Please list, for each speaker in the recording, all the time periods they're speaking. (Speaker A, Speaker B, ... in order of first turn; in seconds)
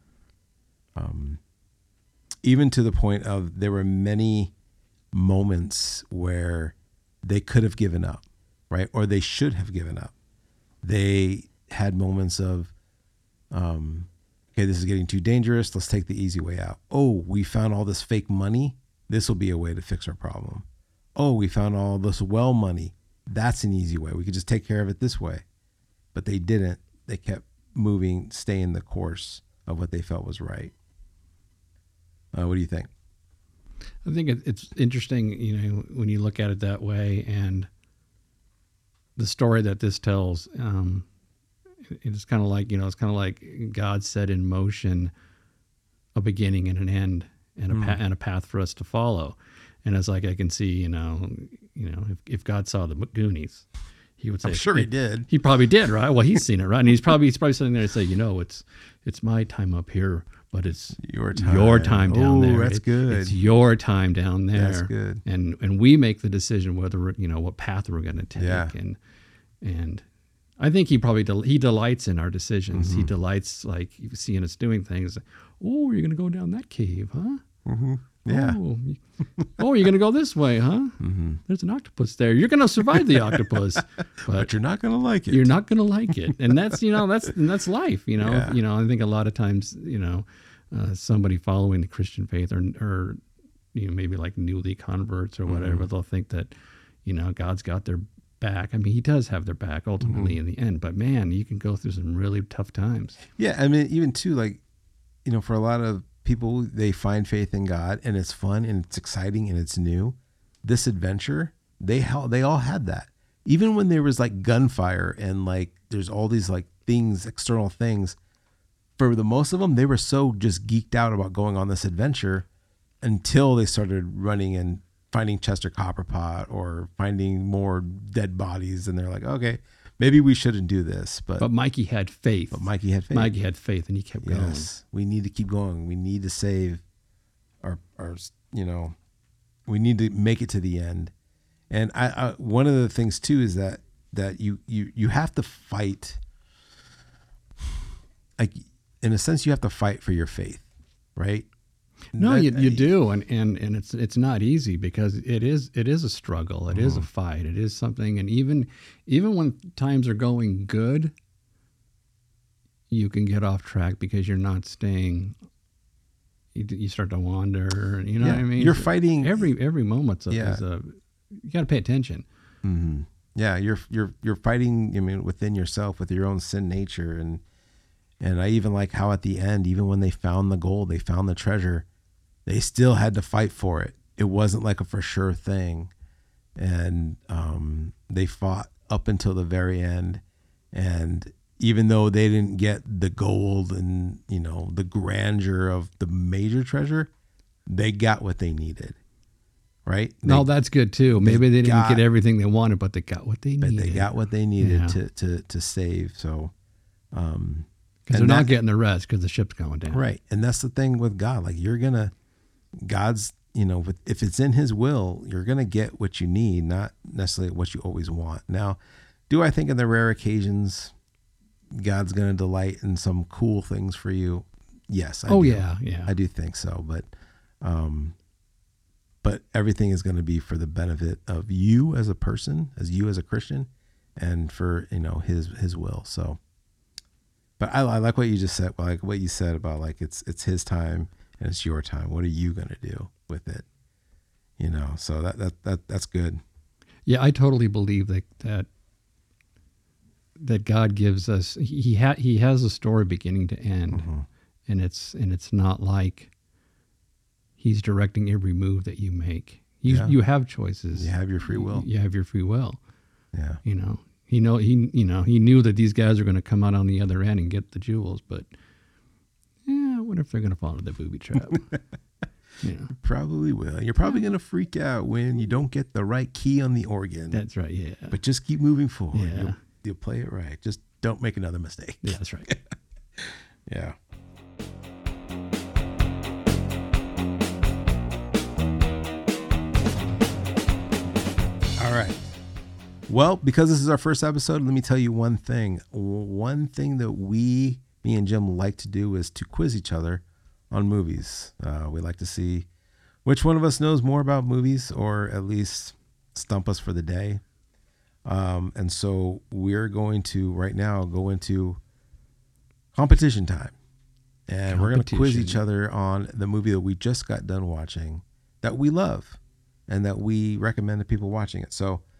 Speaker A: 0.9-1.4, 2.4-4.5, 5.1-10.1, 10.8-12.7, 13.5-20.6, 21.2-25.4, 26.1-30.7, 32.3-32.9, 47.7-48.0, 54.4-55.3, 61.0-63.3, 64.5-65.2, 68.3-68.7, 72.7-73.1, 77.7-78.6, 81.0-81.4, 83.0-83.4, 84.3-85.5, 88.2-88.6, 95.5-95.9, 100.0-100.4, 103.3-104.6, 105.2-118.2, 119.0-122.5, 123.0-131.5, 132.5-133.3, 134.2-136.8, 137.6-138.9, 139.7-141.1, 141.7-146.2, 148.4-151.5, 152.1-152.9, 156.7-157.1, 168.2-169.5, 170.3-170.6, 172.6-177.4, 178.2-181.8, 182.4-185.9, 186.6-190.2, 190.7-197.1, 197.7-199.0, 199.8-200.5, 201.2-202.0, 203.6-206.5, 207.1-208.5, 209.9-212.1, 212.8-218.8, 219.3-220.9, 221.7-227.1, 227.6-228.2, 229.2-236.4, 237.6-243.6, 244.6-246.4, 253.9-254.2, 259.9-260.1, 260.9-261.9, 263.3-263.6, 271.5-271.8, 272.9-277.4, 278.1-282.6, 283.2-283.9, 291.8-292.2, 293.1-302.7, 303.2-307.4, 308.2-311.8, 312.9-313.7, 314.5-322.0
Speaker B: 34.0-37.7, 39.2-41.0, 41.9-45.1, 46.1-53.6, 54.2-69.0, 69.6-70.0, 70.6-77.4, 78.2-79.0, 79.6-84.5, 85.3-93.2, 93.7-96.5, 97.0-103.2, 131.4-134.7, 152.1-161.1, 162.9-165.3, 166.5-172.2, 200.2-205.0, 208.1-210.0, 225.3-226.1, 247.1-248.7, 250.4-254.1, 254.7-256.3, 257.6-262.8, 263.6-268.5, 269.6-271.7, 272.6-272.9, 277.3-278.1, 279.1-279.6, 282.0-282.5, 314.7-315.6